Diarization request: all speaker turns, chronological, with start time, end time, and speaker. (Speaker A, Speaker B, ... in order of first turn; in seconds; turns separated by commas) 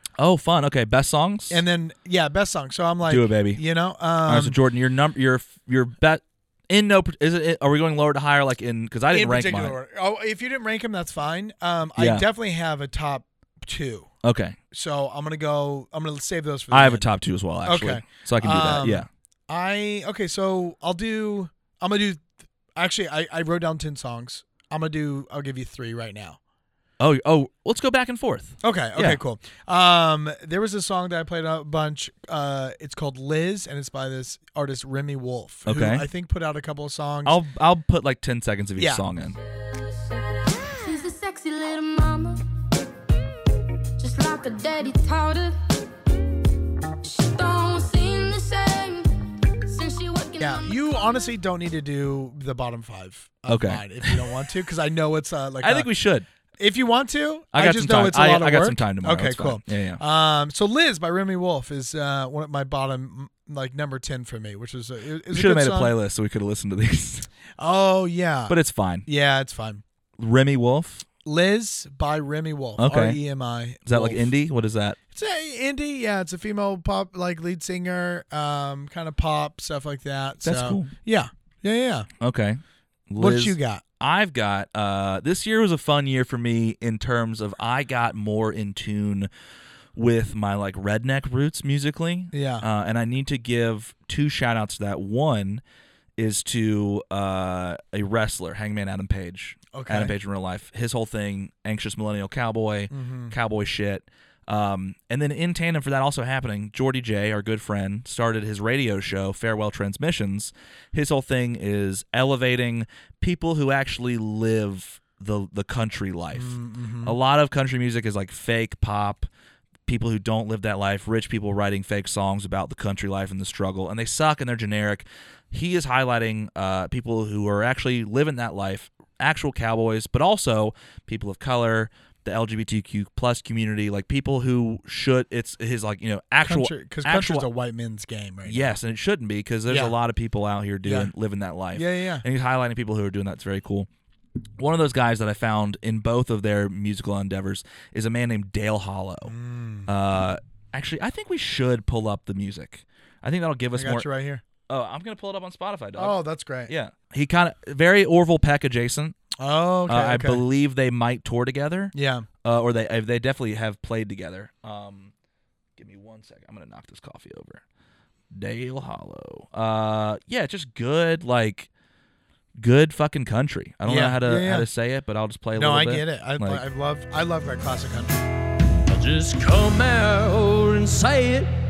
Speaker A: 0.2-1.6, Speaker B: 1.5-4.6, Speaker A: 3.0-3.6, Speaker A: 4.2-9.8, Speaker B: 9.1-14.1, Speaker A: 12.0-12.2, Speaker A: 14.2-14.6, Speaker B: 14.7-17.1, Speaker A: 16.7-19.1, Speaker B: 17.6-26.4, Speaker A: 27.0-29.2, Speaker B: 28.6-37.4, Speaker A: 35.6-36.0, Speaker A: 37.2-39.4, Speaker B: 38.8-39.0, Speaker C: 40.6-42.4, Speaker C: 44.0-45.8, Speaker C: 47.0-49.1, Speaker C: 49.6-51.1, Speaker B: 50.4-55.9, Speaker A: 53.5-54.2, Speaker A: 55.6-56.3, Speaker B: 56.6-65.9, Speaker A: 57.5-60.0, Speaker A: 65.3-67.3, Speaker B: 67.6-69.8, Speaker A: 68.5-69.0, Speaker A: 70.2-71.0, Speaker B: 71.2-74.3, Speaker A: 72.8-73.2, Speaker A: 73.8-75.0, Speaker B: 75.1-82.1, Speaker A: 80.4-80.9, Speaker A: 82.2-89.3, Speaker B: 83.2-83.8, Speaker A: 90.0-95.6, Speaker B: 92.3-92.7, Speaker A: 96.2-119.3, Speaker B: 99.7-100.1, Speaker B: 102.9-103.3, Speaker B: 116.3-117.2, Speaker A: 119.8-137.5, Speaker B: 136.4-138.8, Speaker A: 138.4-143.9, Speaker B: 139.7-139.9, Speaker B: 140.8-141.1, Speaker B: 141.7-142.2, Speaker A: 144.6-149.3, Speaker B: 149.2-149.9, Speaker A: 149.8-154.1, Speaker B: 153.7-154.4, Speaker A: 154.7-159.2, Speaker B: 155.9-156.7, Speaker B: 159.4-160.4, Speaker A: 159.9-161.9, Speaker B: 161.9-162.3, Speaker A: 162.4-165.1, Speaker A: 165.8-167.6, Speaker A: 168.3-171.7, Speaker A: 172.6-176.6, Speaker B: 173.8-174.7, Speaker B: 175.5-178.2, Speaker D: 178.9-181.5